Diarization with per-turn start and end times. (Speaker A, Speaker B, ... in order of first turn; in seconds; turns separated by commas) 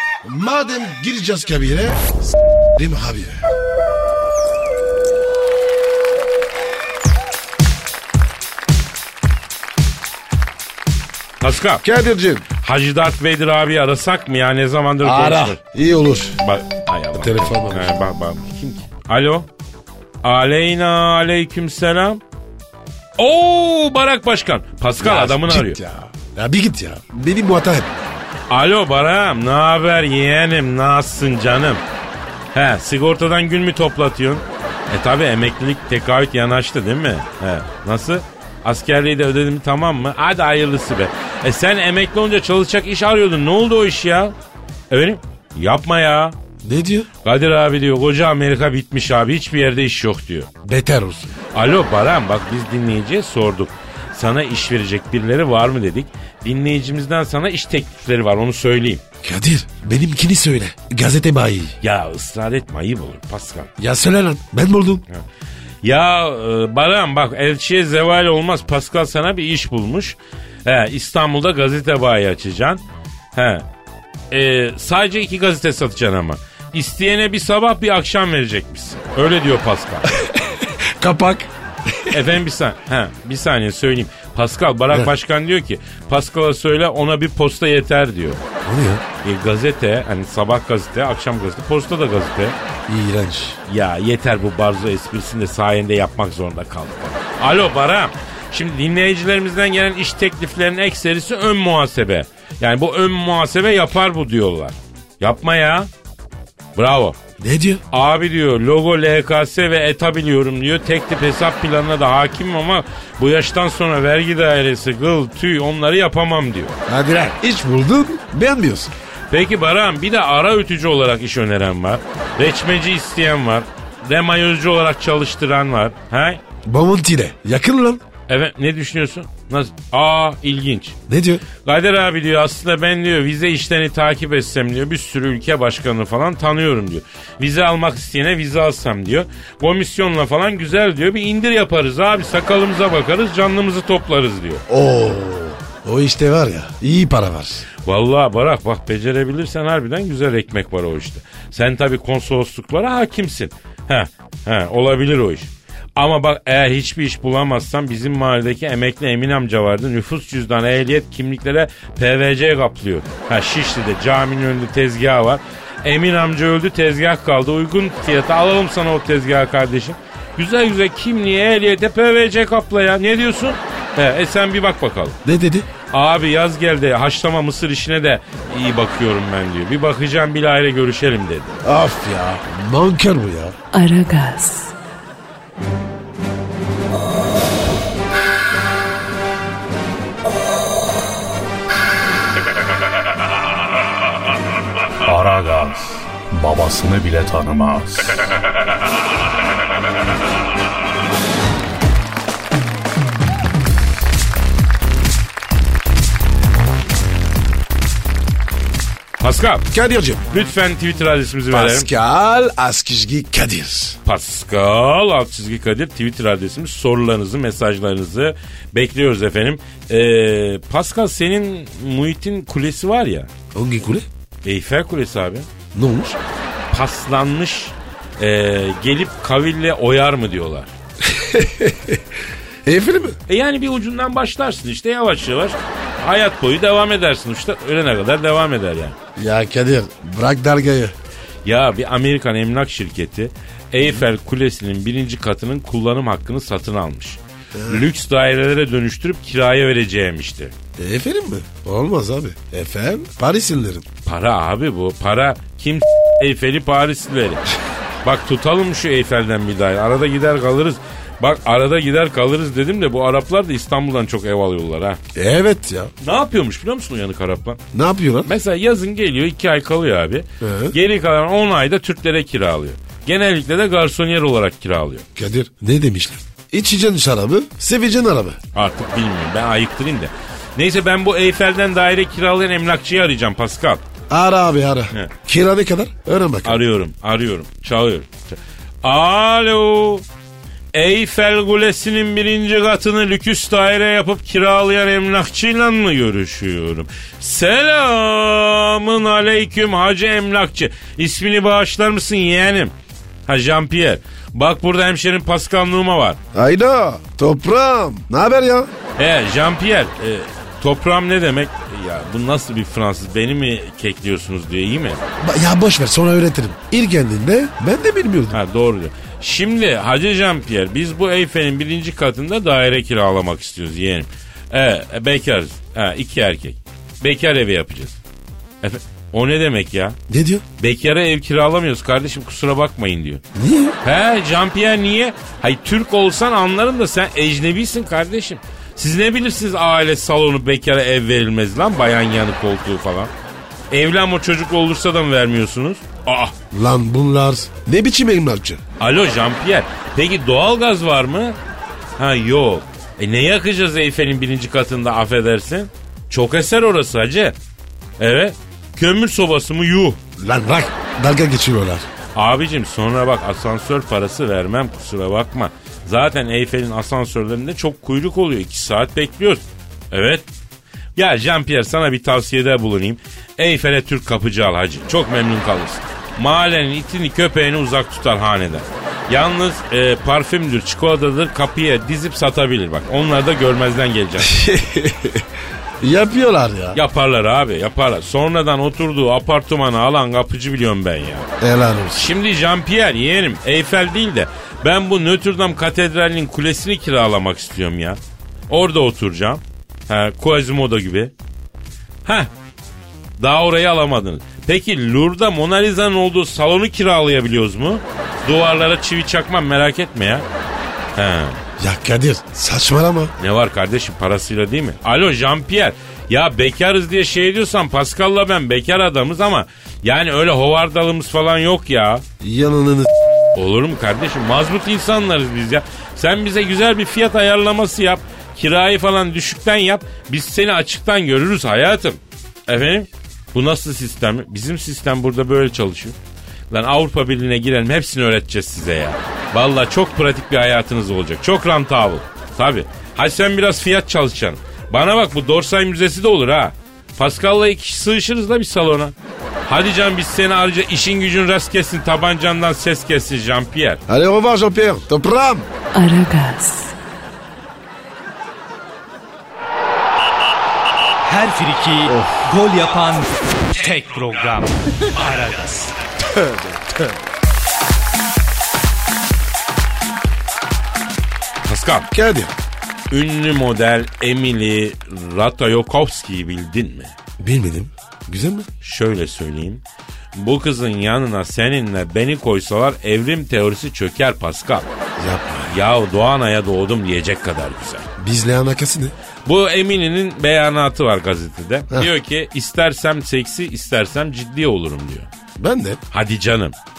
Speaker A: 0.2-2.0, Speaker A: 2.7-3.4, Speaker B: 11.4-11.8, Speaker A: 11.8-12.5, Speaker B: 12.6-15.6, Speaker A: 15.0-16.4, Speaker B: 16.4-19.5, Speaker A: 17.1-17.9, Speaker B: 20.2-22.2, Speaker B: 23.2-25.8, Speaker A: 25.0-28.0, Speaker B: 28.5-31.8, Speaker B: 32.5-44.3, Speaker B: 44.9-46.4, Speaker A: 46.6-47.1, Speaker B: 47.2-50.5, Speaker A: 50.6-51.3, Speaker B: 51.5-59.0, Speaker A: 59.2-61.8, Speaker B: 61.8-63.7, Speaker A: 63.8-65.0, Speaker B: 65.8-72.8, Speaker B: 73.3-73.6, Speaker B: 74.3-80.2, Speaker A: 80.1-82.2, Speaker B: 82.1-88.4, Speaker A: 88.6-89.0, Speaker B: 89.2-92.5, Speaker A: 92.9-93.6, Speaker B: 93.7-105.9, Speaker B: 106.8-107.2, Speaker A: 107.4-107.8, Speaker B: 107.9-116.7, Speaker A: 116.9-118.9, Speaker B: 119.3-126.4, Speaker A: 126.6-128.0, Speaker B: 128.3-130.9, Speaker A: 131.1-131.4, Speaker B: 131.6-144.6, Speaker A: 144.7-147.6, Speaker B: 147.8-175.2, Speaker A: 175.2-175.7, Speaker B: 175.9-181.6, Speaker A: 181.6-183.5, Speaker C: 183.7-184.7, Speaker D: 195.0-198.2, Speaker B: 209.2-209.7, Speaker A: 209.7-210.3, Speaker B: 210.3-211.9, Speaker A: 211.5-214.0, Speaker B: 214.0-223.3, Speaker A: 223.5-224.1, Speaker B: 224.4-225.5, Speaker A: 225.7-226.2, Speaker B: 226.7-230.7, Speaker A: 231.0-232.0, Speaker A: 232.6-233.2, Speaker B: 233.3-238.9, Speaker A: 239.2-240.9, Speaker B: 241.4-250.5, Speaker A: 247.5-247.8, Speaker A: 250.8-253.8, Speaker B: 254.0-257.4, Speaker B: 258.0-265.0, Speaker A: 265.1-265.9, Speaker B: 266.0-267.6, Speaker A: 267.7-268.3, Speaker B: 268.2-275.0, Speaker A: 270.4-270.7, Speaker A: 275.1-278.4, Speaker B: 278.5-283.8, Speaker A: 284.1-286.6, Speaker B: 286.4-290.0, Speaker B: 290.7-302.7, Speaker B: 303.3-306.2, Speaker A: 306.3-308.7, Speaker B: 309.0-315.0, Speaker A: 315.2-318.4, Speaker B: 318.3-328.0, Speaker B: 328.6-330.0, Speaker A: 330.1-330.4, Speaker B: 330.6-333.2, Speaker A: 333.3-333.8, Speaker B: 333.8-343.1, Speaker B: 343.7-346.3, Speaker A: 346.5-348.6, Speaker B: 348.8-351.4, Speaker B: 352.0-357.4, Speaker B: 358.0-360.0, Speaker A: 360.2-361.9, Speaker B: 362.1-370.2, Speaker B: 370.9-384.3, Speaker A: 384.2-385.2, Speaker A: 385.8-386.8, Speaker B: 386.7-391.3, Speaker A: 391.4-392.1, Speaker B: 391.9-401.1, Speaker B: 402.0-402.3, Speaker B: 403.2-410.2, Speaker B: 410.9-411.4, Speaker A: 411.6-413.1, Speaker B: 413.2-422.0, Speaker A: 422.2-422.9, Speaker B: 423.3-436.0, Speaker B: 436.5-448.9, Speaker B: 449.4-453.8, Speaker A: 453.9-455.5, Speaker C: 455.7-456.8, Speaker E: 461.0-465.7, Speaker A: 461.9-462.2, Speaker A: 466.0-466.9, Speaker B: 471.4-471.9, Speaker A: 471.9-472.3, Speaker B: 472.9-476.9, Speaker A: 477.2-478.5, Speaker B: 478.6-479.6, Speaker B: 480.1-484.7, Speaker A: 485.0-485.6, Speaker B: 485.5-487.9, Speaker A: 488.0-488.9, Speaker B: 489.2-495.1, Speaker A: 495.4-495.8, Speaker B: 495.9-496.6